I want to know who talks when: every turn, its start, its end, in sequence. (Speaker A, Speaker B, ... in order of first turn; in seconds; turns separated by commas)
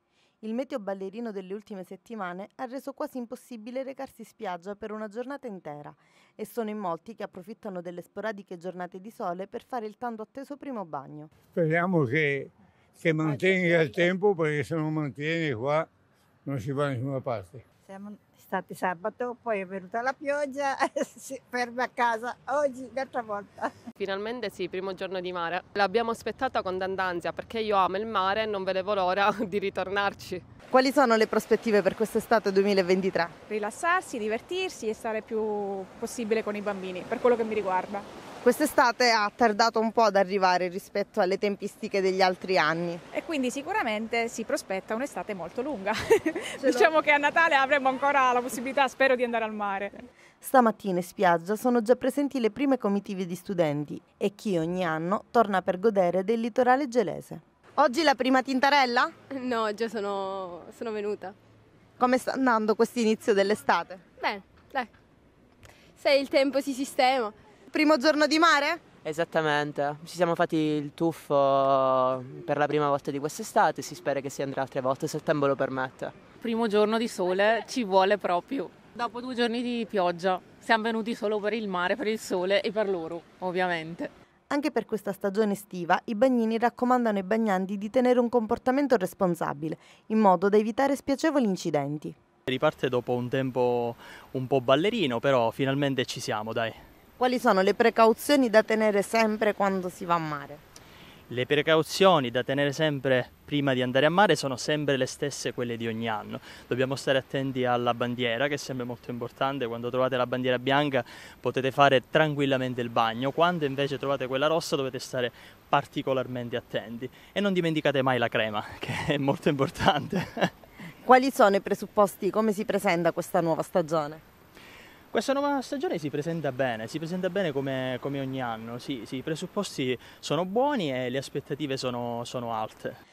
Speaker A: 0.4-11.3, Speaker B: 11.5-15.9, Speaker C: 13.1-14.1, Speaker B: 16.4-17.6, Speaker C: 17.9-23.7, Speaker D: 24.0-30.4, Speaker A: 30.7-33.3, Speaker E: 33.5-38.0, Speaker A: 38.4-43.0, Speaker E: 43.1-50.0, Speaker A: 50.4-59.1, Speaker F: 59.3-61.3, Speaker A: 62.0-64.0, Speaker F: 64.2-64.9, Speaker F: 66.0-67.3, Speaker A: 67.7-68.8, Speaker G: 69.0-76.2, Speaker H: 76.4-84.1, Speaker A: 84.5-92.1, Speaker I: 92.5-96.8, Speaker A: 97.2-100.6, Speaker I: 101.3-120.5, Speaker A: 121.0-124.2, Speaker I: 125.1-133.0